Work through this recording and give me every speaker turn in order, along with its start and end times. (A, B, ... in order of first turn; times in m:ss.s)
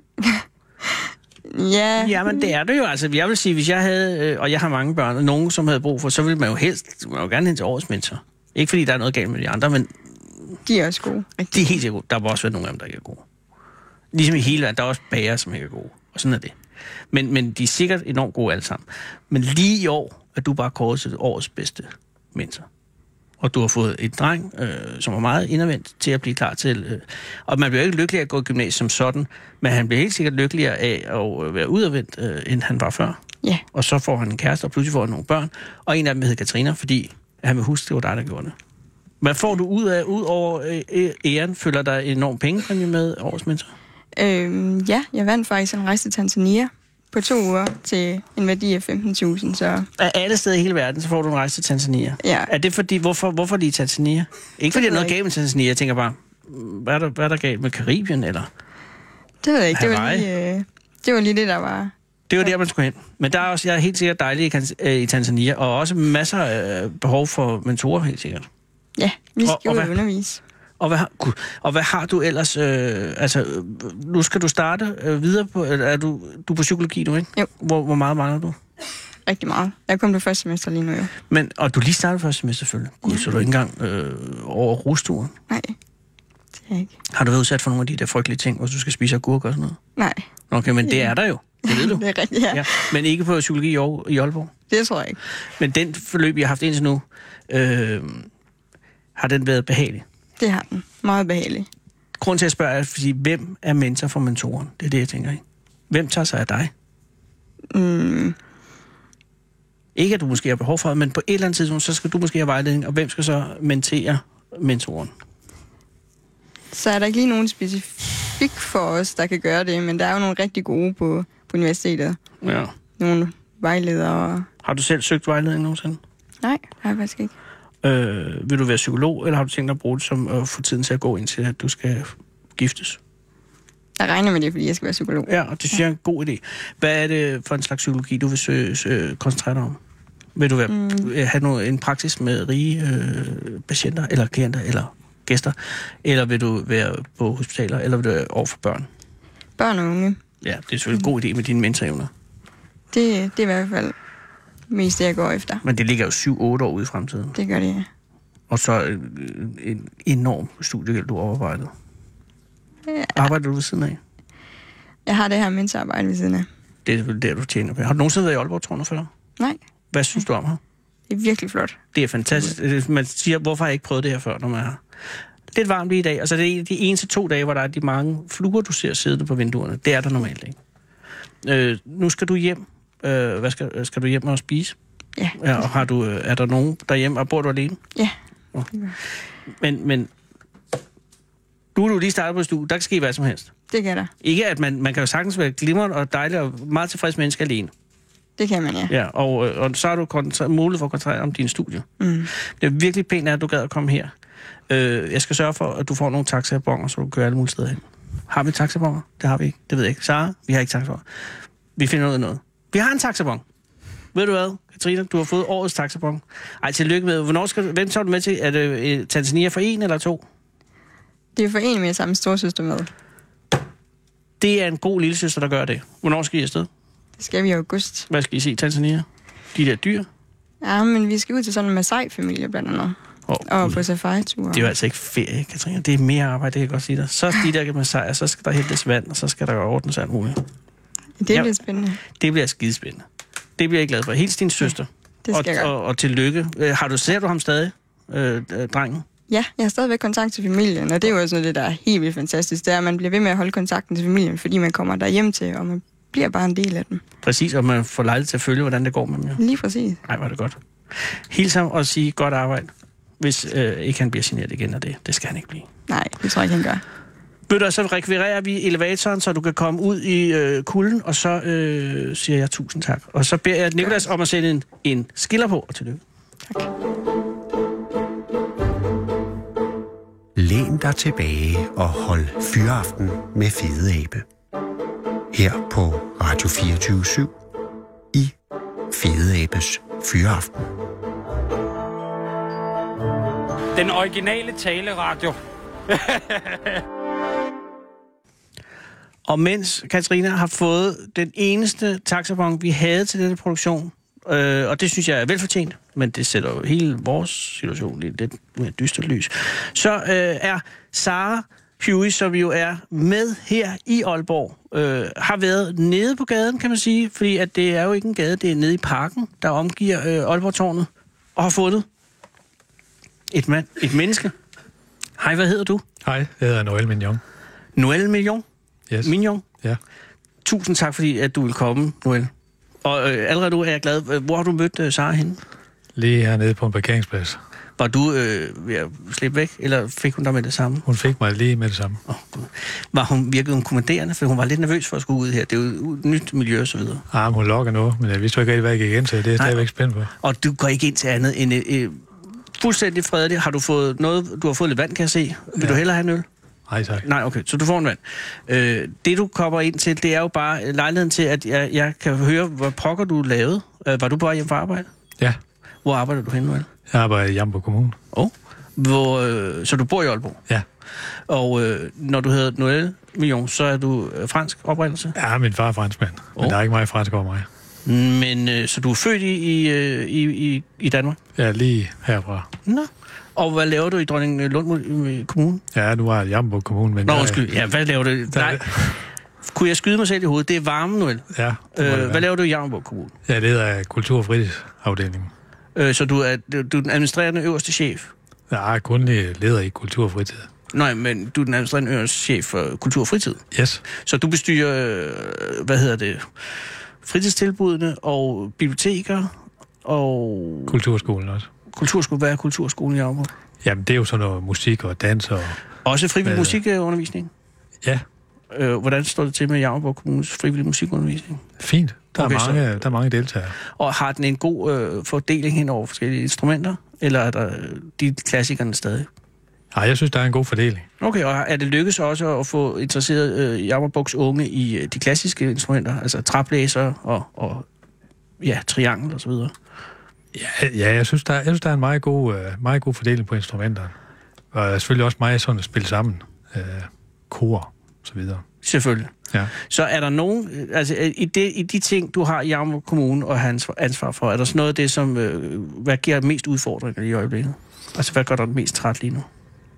0:00.2-0:02.5 A
0:02.0-0:09.9 B
0:10.6-0:11.8 A
0:11.5-0:13.2 B
0:14.1-0:16.5 B
0:17.1-0:22.6 B
0:23.4-0:33.2 B
0:33.7-0:38.5 B
0:39.2-0:43.7 B
0:44.2-0:49.9 A
0:50.0-0:58.5 B
0:52.2-0:52.5 A
0:54.7-0:55.1 A
0:59.4-1:02.5 A
0:59.7-1:00.3 B
1:02.3-1:08.4 B
1:09.0-1:10.4 A
1:09.4-1:10.0 B
1:10.8-1:18.6 B
1:19.2-1:21.1 A
1:21.3-1:25.3 B
1:23.0-1:23.3 A
1:25.5-1:25.8 A
1:26.7-1:26.9 A
1:27.1-1:29.8 B
1:30.0-1:30.3 A
1:30.5-1:34.5 B
1:30.8-1:31.1 A
1:31.6-1:33.0 A
1:34.7-1:35.2 A
1:35.6-1:38.3 B
1:39.2-1:40.0 B
1:40.4-1:41.7 A
1:42.2-1:46.7 B
1:47.7-1:48.4 A
1:49.9-1:55.1 B
1:56.7-2:02.2 A
2:02.4-2:02.7 B
2:03.0-2:04.5 A
2:04.6-2:06.0 B
2:06.4-2:07.3 A
2:07.8-2:13.0 B
2:14.0-2:15.8 A
2:15.2-2:19.8 B
2:20.4-2:28.9 B
2:20.7-2:21.1 A
2:29.6-2:30.2 A
2:30.4-2:32.1 B
2:32.9-2:33.9 A
2:34.7-2:35.6 A
2:35.6-2:37.4 B
2:37.3-2:37.9 A
2:38.5-2:41.7 B
2:42.9-2:43.3 A
2:43.1-2:44.0 B
2:45.0-2:46.5 A
2:46.8-2:49.1 B
2:49.9-2:50.6 B
2:51.1-2:51.8 A
2:51.9-2:54.8 B
2:55.5-3:00.5 B
3:01.4-3:04.7 B
3:05.4-3:07.8 B
3:09.6-3:10.1 B
3:11.7-3:13.5 B
3:13.7-3:14.1 A
3:14.2-3:17.7 B
3:18.4-3:18.9 A
3:18.9-3:21.9 B
3:22.0-3:22.3 A
3:22.6-3:24.1 B
3:24.7-3:31.0 B
3:31.8-3:33.4 B
3:34.1-3:40.2 B
3:41.4-3:42.9 A
3:44.4-3:46.7 B
3:47.2-3:48.1 A
3:48.1-3:50.1 B
3:50.6-3:54.7 A
3:53.3-3:53.8 B
3:54.5-4:00.4 B
4:01.2-4:02.0 A
4:01.3-4:03.0 B
4:03.6-4:09.0 B
4:05.2-4:05.7 A
4:09.3-4:17.0 A
4:17.2-4:19.4 B
4:19.4-4:20.0 A
4:20.1-4:20.6 B
4:21.1-4:25.7 B
4:25.9-4:26.8 A
4:27.5-4:36.0 B
4:40.3-4:44.2 C
4:45.3-4:47.3 C
4:48.9-4:50.7 C
4:53.7-4:55.4 D
4:55.9-4:56.8 D
4:59.3-5:21.8 B
5:23.3-5:24.3 B
5:25.2-5:25.8 B
5:26.0-5:27.2 E
5:27.8-5:28.4 B
5:29.0-5:29.4 B
5:30.4-5:32.3 B
5:32.8-5:35.4 B
5:36.0-5:37.4 E
5:37.8-5:40.8 B
5:40.8-5:42.0 E
5:42.1-5:47.0 B
5:47.1-5:50.1 E
5:49.4-5:49.6 B
5:50.2-5:52.0 B
5:52.5-5:56.2 B
5:56.7-5:57.0 E
5:57.0-6:04.9 B
6:05.8-6:06.7 B
6:06.9-6:08.0 E
6:08.1-6:10.4 B
6:11.3-6:15.1 B
6:15.1-6:17.5 E
6:17.8-6:21.2 B
6:21.3-6:22.5 E
6:22.6-6:25.6 B
6:25.7-6:27.4 E
6:27.0-6:33.1 B
6:28.3-6:29.0 E
6:31.3-6:32.2 E
6:33.2-6:35.3 E
6:35.8-6:38.1 B
6:38.5-6:40.5 E
6:40.7-6:43.4 B
6:43.5-6:43.8 E
6:44.0-6:46.3 B
6:47.0-6:49.3 B
6:49.8-6:50.8 B
6:50.7-6:51.5 E
6:51.7-6:53.3 B
6:53.6-6:55.6 E
6:55.8-6:57.3 B
6:56.2-6:56.6 E
6:58.5-7:01.4 B
7:01.6-7:03.6 E
7:02.2-7:02.7 B
7:03.7-7:09.1 B
7:09.7-7:10.9 E
7:11.0-7:17.6 B
7:18.4-7:19.5 B
7:20.3-7:23.9 E
7:24.5-7:28.4 E
7:28.6-7:39.2 B